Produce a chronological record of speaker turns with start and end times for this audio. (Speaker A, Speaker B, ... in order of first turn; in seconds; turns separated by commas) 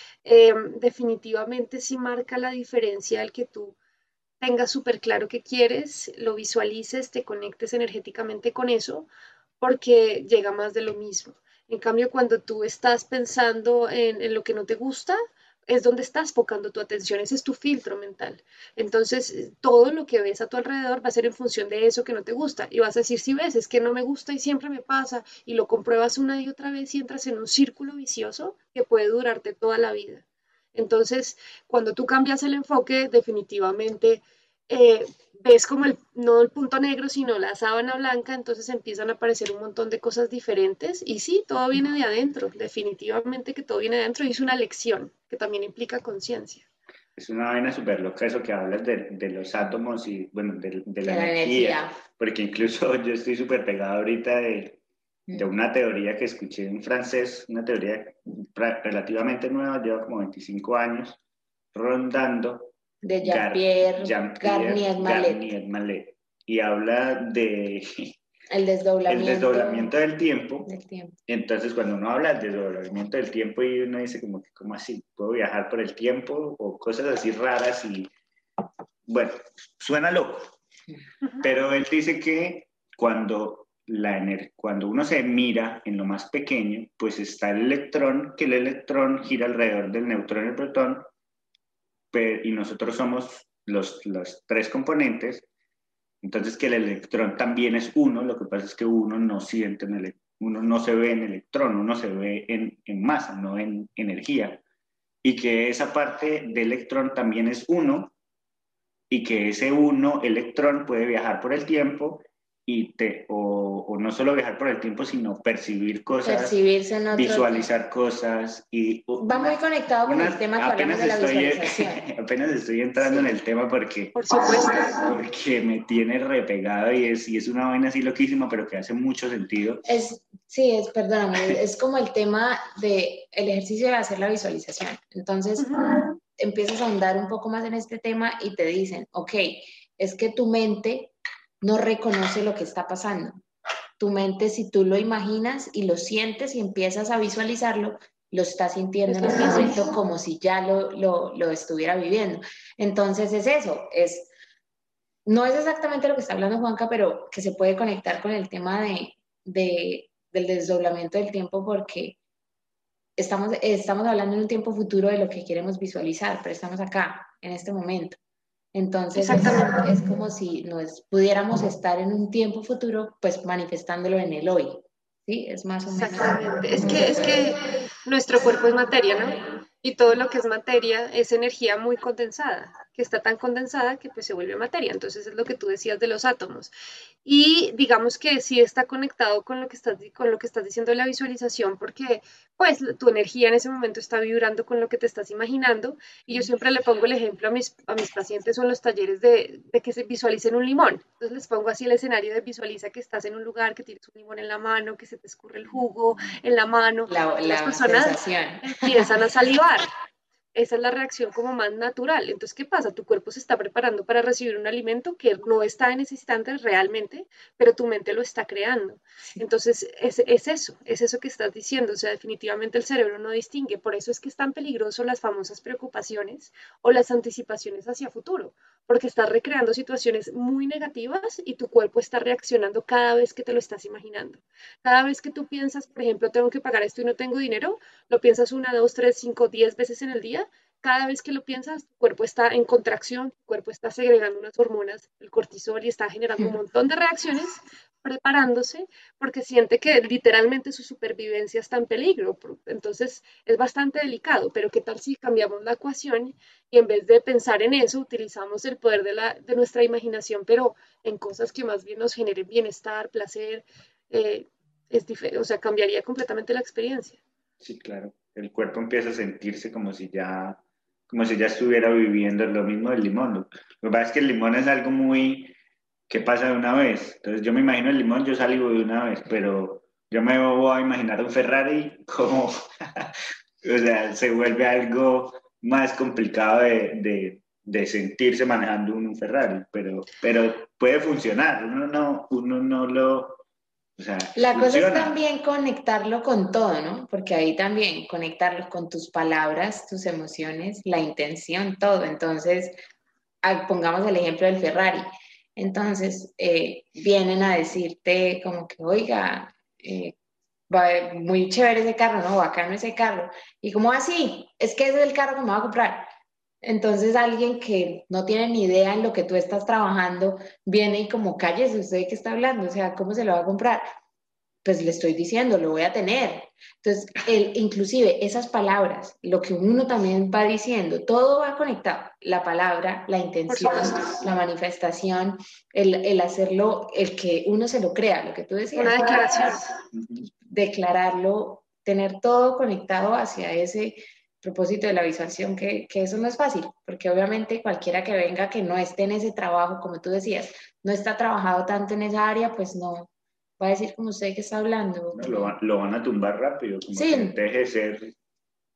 Speaker A: 0.2-3.8, Speaker A: 4.4-9.1, Speaker A: 9.6-46.7, Speaker B: 47.2-54.8, Speaker C: 51.0-52.0, Speaker B: 55.3-61.2, Speaker B: 61.7-68.2, Speaker C: 63.0-65.5, Speaker C: 68.5-69.9, Speaker B: 69.1-70.7, Speaker C: 70.7-71.2, Speaker B: 71.3-78.1, Speaker B: 79.1-80.5, Speaker B: 81.4-91.1, Speaker B: 92.1-95.5, Speaker B: 96.2-104.6, Speaker B: 105.2-108.1, Speaker B: 109.1-116.5, Speaker C: 116.2-117.7, Speaker B: 117.1-129.9, Speaker C: 119.2-122.0, Speaker A: 124.2-124.9, Speaker C: 129.9-143.4, Speaker A: 135.6-136.0, Speaker C: 144.0-154.3, Speaker A: 149.1-149.8, Speaker C: 155.3-162.2, Speaker C: 163.2-168.2, Speaker C: 168.7-177.3, Speaker A: 169.2-169.8, Speaker A: 175.9-186.7, Speaker A: 187.2-209.9, Speaker C: 207.1-209.1, Speaker A: 210.5-267.2, Speaker B: 267.6-275.5, Speaker B: 276.1-293.4, Speaker B: 294.0-295.2, Speaker C: 294.4-302.7, Speaker C: 303.4-305.1, Speaker C: 305.6-310.1, Speaker C: 310.7-316.1, Speaker C: 316.6-323.8, Speaker C: 324.6-339.6, Speaker A: 333.5-334.1, Speaker A: 338.8-339.7, Speaker B: 339.9-340.3, Speaker C: 340.3-355.5, Speaker B: 355.1-358.1, Speaker C: 356.9-357.4